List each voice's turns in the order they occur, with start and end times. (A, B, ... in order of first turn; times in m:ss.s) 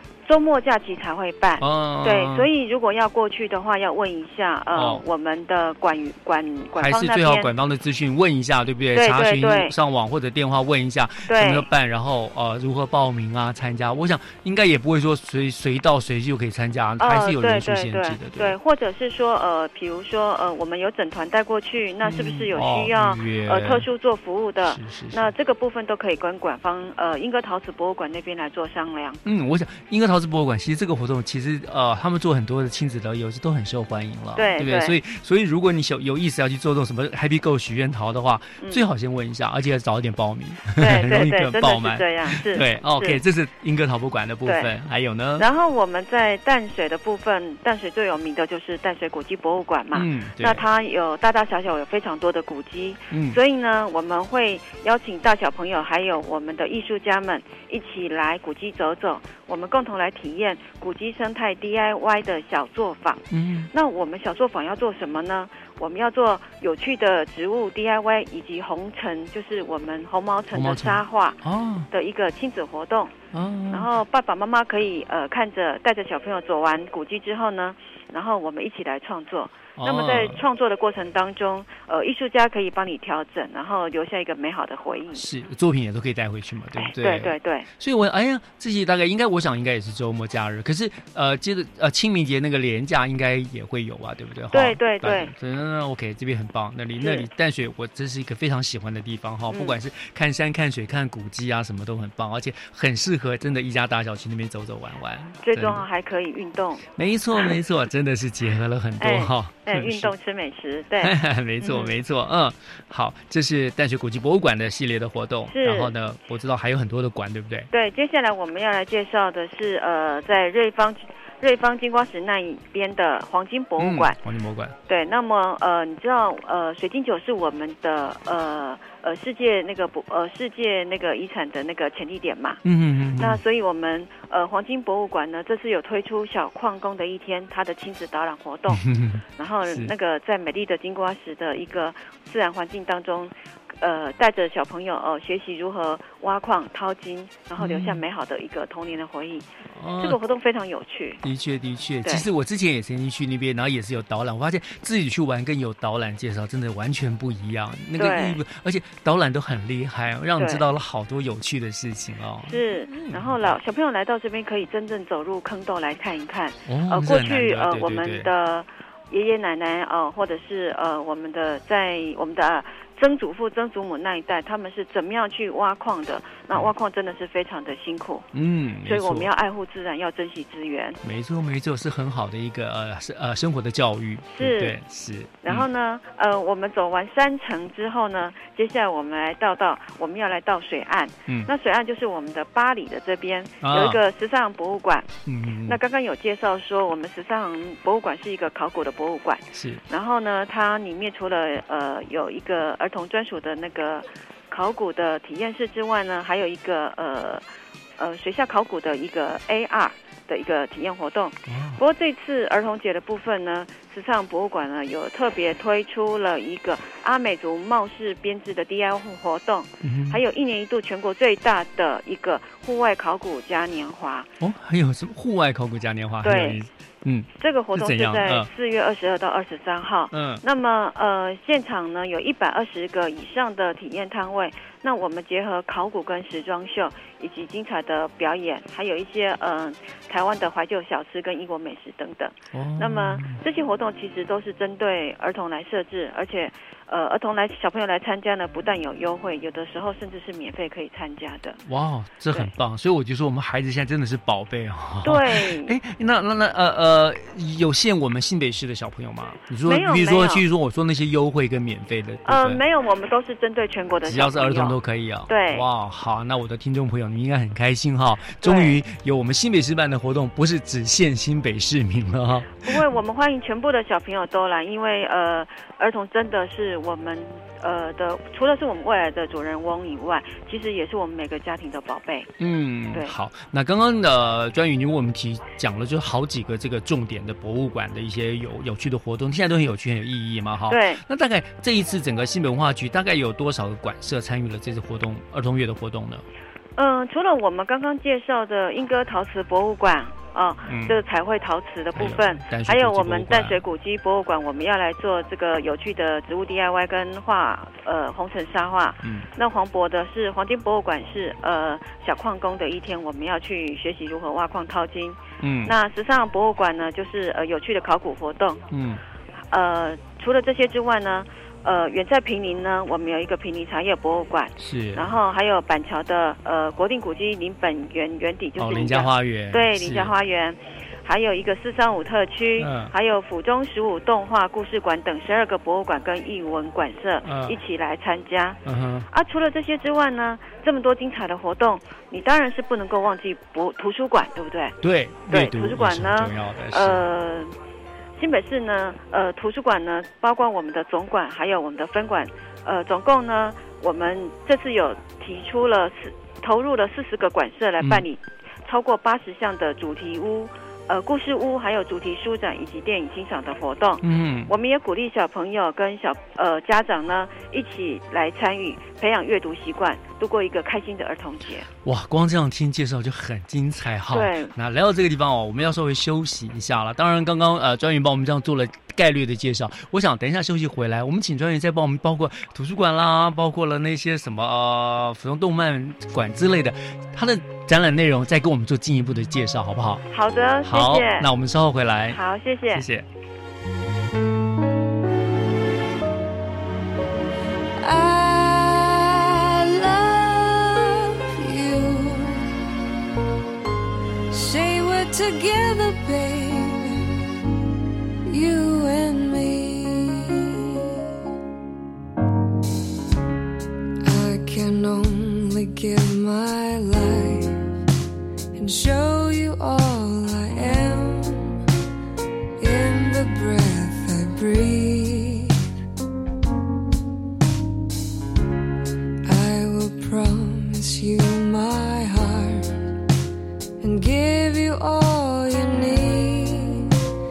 0:00.2-0:07.5 A
0:01.6-0:02.5 B
0:04.7-0:05.0 B
0:06.7-0:18.6 B
0:08.9-0:09.7 A
0:11.3-0:11.7 A
0:17.0-0:29.2 A
0:22.0-0:23.9 B
0:24.6-0:25.3 B
0:29.2-0:45.4 B
0:34.3-0:35.0 A
0:38.6-0:38.8 A
0:40.7-0:43.2 A
0:44.4-0:44.7 A
0:45.4-1:11.4 A
0:49.9-0:50.6 B
0:53.1-0:53.4 B
1:03.3-1:03.7 B
1:10.5-1:11.9 B
1:11.9-1:13.2 A
1:13.3-1:14.0 B
1:13.7-1:25.2 A
1:19.8-1:20.4 B
1:25.1-1:45.9 B
1:26.8-1:27.7 A
1:34.5-1:35.3 A
1:37.0-1:37.3 A
1:39.5-1:39.8 A
1:45.4-1:46.8 A
1:46.9-1:50.1 B
1:49.0-1:51.9 A
1:51.0-1:57.7 B
1:55.5-1:55.9 A
1:57.7-2:04.2 A
2:03.8-2:04.7 B
2:04.9-2:12.6 A
2:12.6-2:13.4 B
2:13.2-2:18.8 A
2:18.7-2:19.9 B
2:19.4-2:29.4 A
2:27.6-2:28.0 B
2:29.7-2:30.2 B
2:30.0-2:31.2 A
2:31.2-2:43.6 B
2:38.0-2:38.4 A
2:40.4-2:40.6 A
2:42.4-2:58.2 A
2:46.6-2:48.3 B
2:58.3-2:59.3 B
2:58.8-3:01.0 A
3:01.0-3:05.7 B
3:04.4-3:04.8 A
3:05.4-3:27.4 A
3:13.6-3:14.0 B
3:15.2-3:15.8 B
3:19.5-3:19.8 B
3:28.0-3:44.3 A
3:31.4-3:31.8 B
3:39.8-3:40.2 B
3:44.4-3:48.5 B
3:46.2-3:46.6 A
3:47.4-4:11.6 A
3:50.1-3:50.4 B
4:02.5-4:03.4 B
4:11.6-4:22.6 B
4:15.0-4:15.8 A
4:19.6-4:20.4 A
4:22.2-4:25.6 A
4:24.0-4:32.9 B
4:28.4-4:28.8 A
4:32.6-4:42.3 A
4:42.4-4:56.2 B
4:50.7-4:51.0 A
4:56.8-5:18.6 A
5:00.6-5:01.0 B
5:01.9-5:03.6 B
5:09.0-5:09.3 B
5:15.4-5:15.7 B
5:18.7-5:19.0 B
5:19.5-5:38.6 A
5:24.6-5:25.1 B
5:28.6-5:30.1 B
5:32.6-5:32.9 B
5:37.2-5:37.6 B
5:38.6-5:39.1 B
5:39.1-5:44.7 A
5:44.8-5:47.0 B
5:45.3-5:47.5 A
5:48.2-6:11.7 A
5:57.8-5:58.0 B
6:04.0-6:04.5 B
6:11.8-6:30.0 B
6:14.1-6:14.5 A
6:30.1-6:31.3 A
6:30.6-6:33.0 B
6:32.1-6:32.9 A
6:37.8-6:42.5 C
6:44.3-6:47.0 C
6:48.2-6:50.9 C
6:54.0-6:57.6 C
6:58.5-7:01.6 C
7:02.6-7:05.5 C
7:09.2-7:12.7 C
7:13.8-7:16.9 C